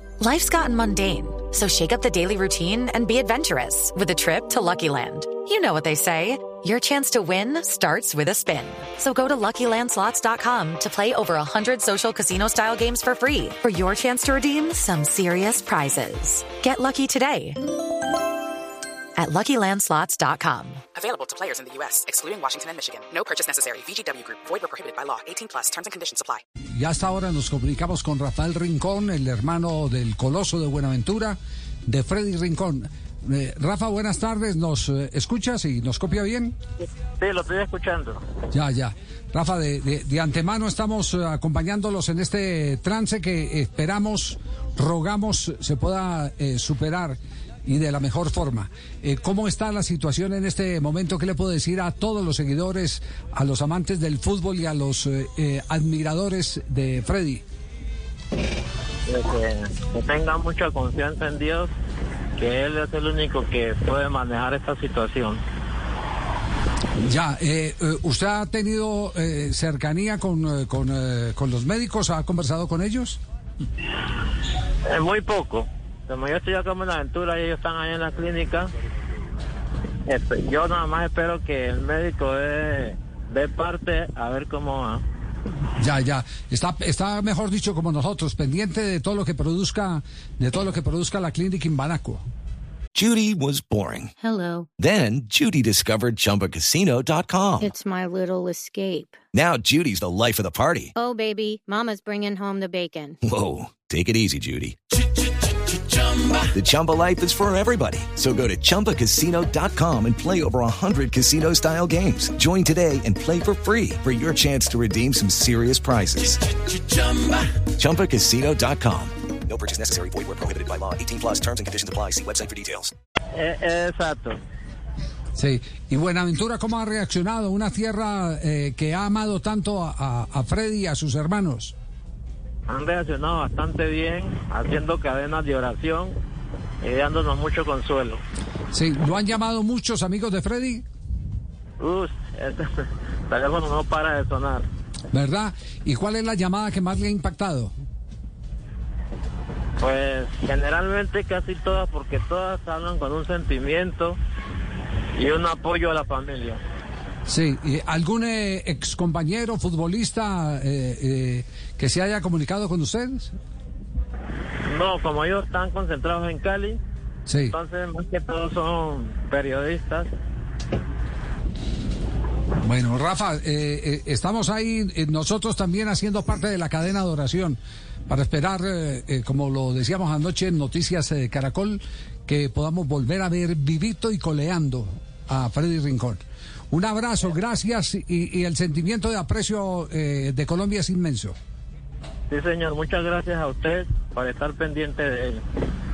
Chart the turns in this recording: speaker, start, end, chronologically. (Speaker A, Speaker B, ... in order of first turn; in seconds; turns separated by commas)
Speaker A: 0.2-17.6, Speaker A: 19.2-20.8, Speaker B: 20.9-26.4, Speaker C: 26.7-36.5, Speaker D: 37.2-38.2, Speaker C: 38.5-57.4, Speaker D: 59.1-61.7, Speaker D: 62.4-65.4, Speaker C: 67.0-73.2, Speaker D: 74.9-78.7, Speaker D: 80.0-85.0, Speaker C: 85.8-92.2, Speaker E: 92.9-94.1, Speaker E: 94.8-97.7, Speaker F: 97.6-99.1, Speaker E: 99.3-100.9, Speaker F: 101.0-103.2, Speaker E: 103.2-104.8, Speaker E: 106.4-116.4, Speaker D: 116.9-117.4, Speaker E: 117.7-122.9, Speaker D: 123.3-124.4, Speaker C: 125.4-131.7, Speaker D: 132.7-136.1, Speaker D: 136.8-138.2, Speaker C: 138.7-140.8, Speaker D: 141.8-144.7, Speaker C: 145.1-147.7, Speaker D: 149.8-154.2, Speaker D: 155.2-156.6, Speaker C: 157.2-163.3, Speaker D: 164.7-166.8, Speaker C: 167.3-167.5, Speaker D: 167.5-170.1, Speaker C: 172.6-191.3, Speaker D: 192.3-195.4